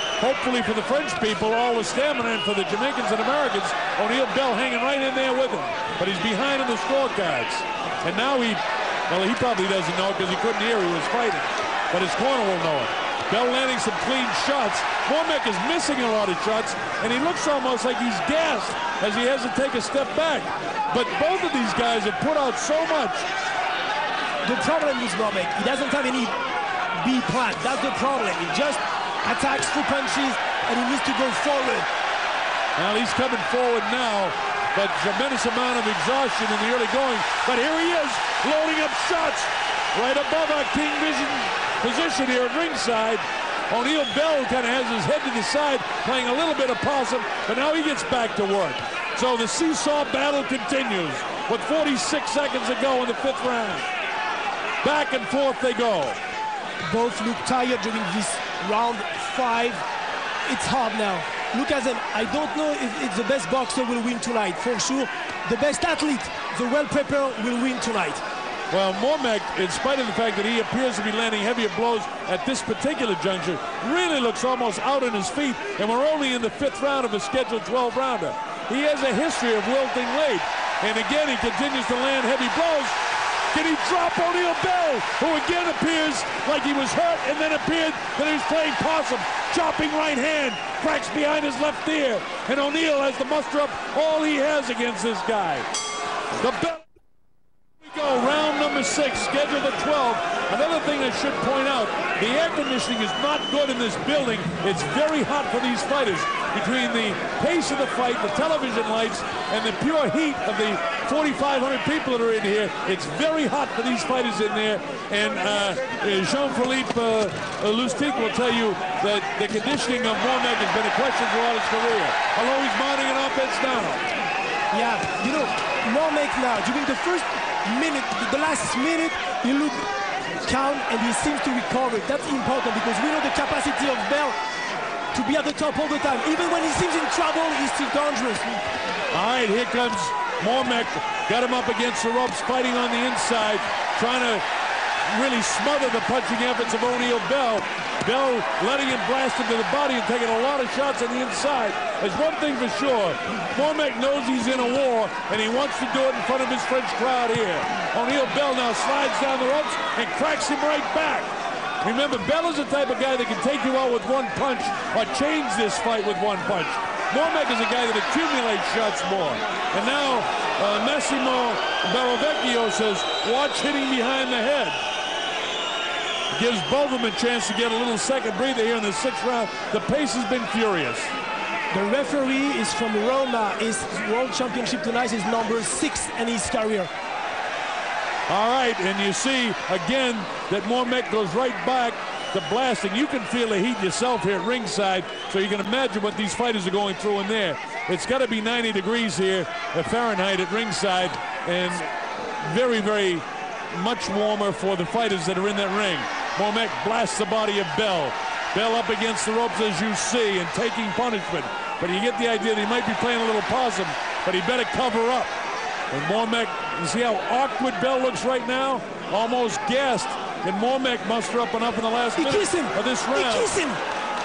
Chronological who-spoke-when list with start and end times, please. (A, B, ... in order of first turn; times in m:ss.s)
0:00.2-0:23.3 A
0:24.4-0:26.4 B
0:27.0-0:31.9 B
0:32.8-0:53.9 A
0:54.8-0:56.2 A
0:56.8-0:59.9 B
1:00.4-1:08.2 B
1:08.7-1:23.0 A
1:23.5-1:35.7 A
1:36.4-1:36.9 A
1:37.8-2:04.0 A
2:04.7-2:09.9 B
2:10.4-2:14.4 B
2:15.1-2:18.5 B
2:19.1-2:24.4 A
2:25.1-2:41.3 A
2:41.8-2:54.8 A
2:56.3-3:01.1 A
3:01.7-3:06.9 B
3:08.3-3:21.9 A
3:22.4-3:35.3 A
3:35.9-3:43.5 A
3:42.2-3:43.8 B